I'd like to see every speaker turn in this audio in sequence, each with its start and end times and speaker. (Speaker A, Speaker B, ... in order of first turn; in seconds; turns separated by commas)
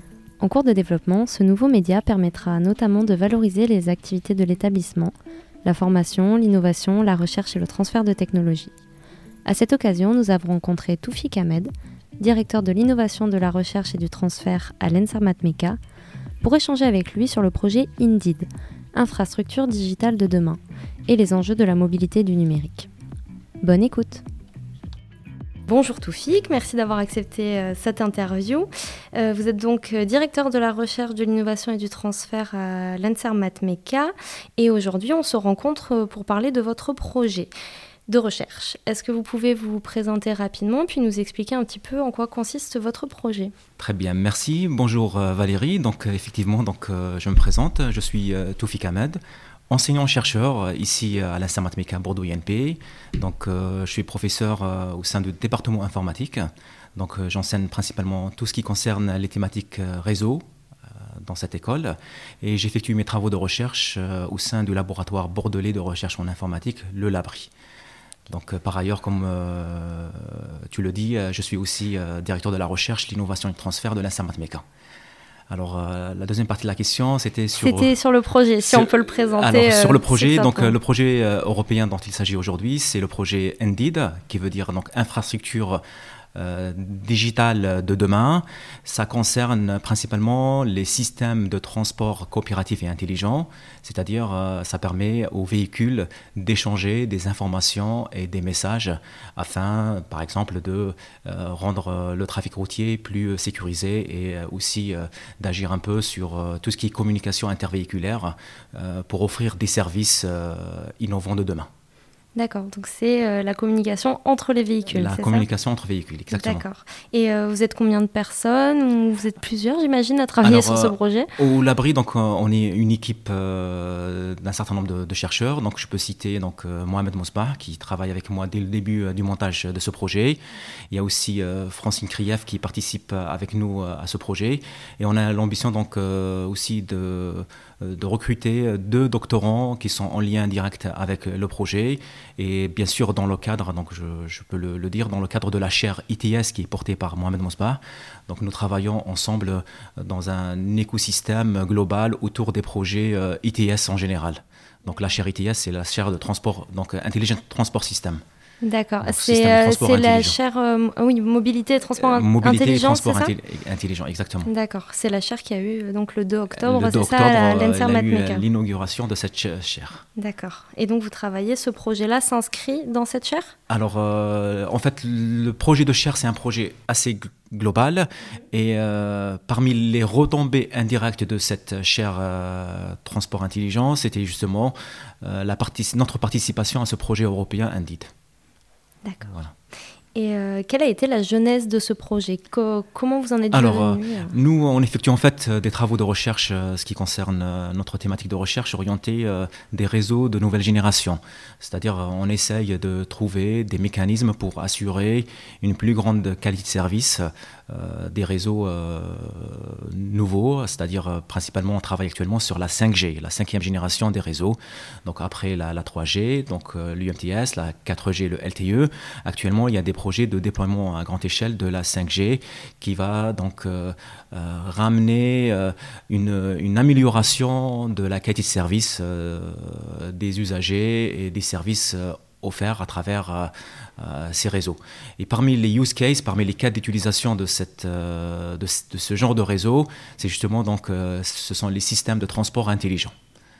Speaker A: 0.4-8.7, Speaker A: 9.4-15.8, Speaker A: 16.4-22.9, Speaker A: 23.6-24.2, Speaker A: 25.7-37.5, Speaker A: 38.1-43.5, Speaker B: 43.8-60.4, Speaker B: 61.2-67.5, Speaker B: 68.3-74.6, Speaker B: 75.5-77.9, Speaker A: 77.5-80.8, Speaker B: 78.6-85.8, Speaker B: 86.3-111.7, Speaker A: 112.3-115.5, Speaker B: 114.9-116.6, Speaker A: 116.3-121.3, Speaker B: 120.4-158.2, Speaker A: 158.6-163.3, Speaker B: 159.0-160.4, Speaker B: 162.0-164.5, Speaker A: 164.4-168.4, Speaker B: 166.5-170.0, Speaker A: 170.2-173.5, Speaker B: 173.7-188.1, Speaker A: 189.0-189.3, Speaker B: 189.2-189.5, Speaker A: 190.1-194.3, Speaker B: 193.5-243.1